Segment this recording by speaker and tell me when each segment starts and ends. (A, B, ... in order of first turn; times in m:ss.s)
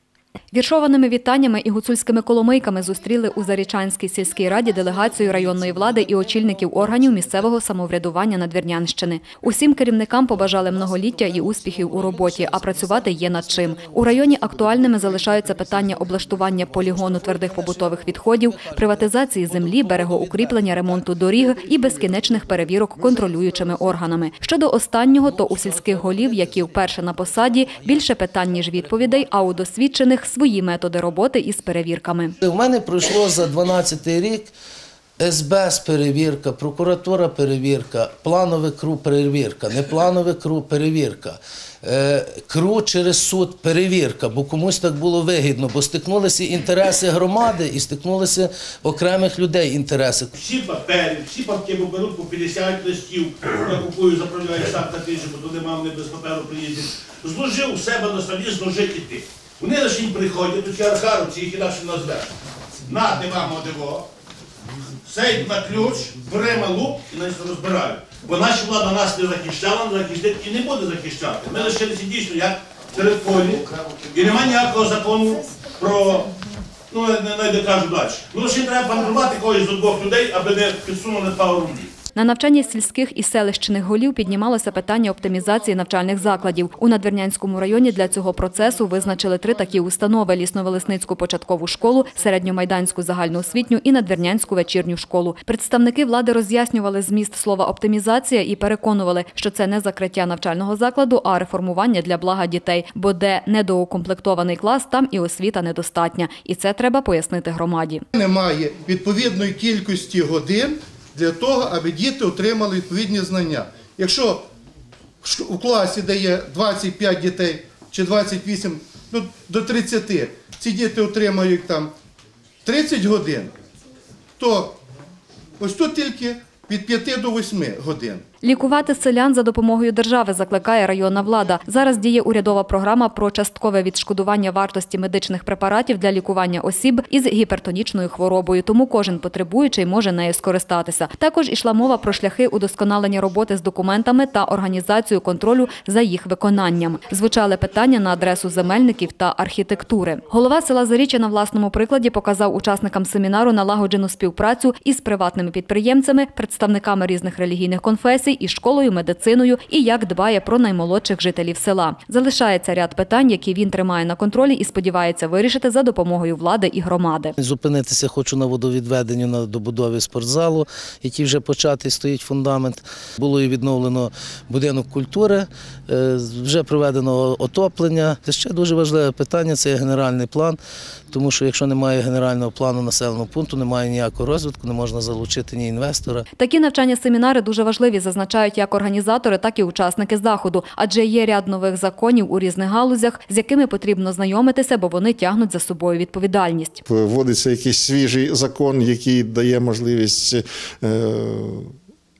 0:00.5-0:32.3 A
0:11.2-0:14.7 B
0:16.6-0:21.0 B
0:25.3-0:28.0 B
0:28.8-0:29.2 B
0:32.4-0:34.5 B
0:35.2-0:50.3 B
0:50.3-1:02.3 C
1:02.8-1:04.1 C
1:05.0-1:16.2 C
1:13.5-1:14.2 B
1:16.9-1:21.9 C
1:22.1-1:48.0 A
1:48.1-1:54.5 D
1:55.2-2:01.9 D
2:02.6-2:03.5 D
2:04.4-2:04.8 D
2:05.6-2:08.2 D
2:08.4-2:47.3 A
2:47.4-3:00.6 B
3:01.1-3:06.2 B
3:06.4-3:16.8 A
3:16.8-3:21.7 E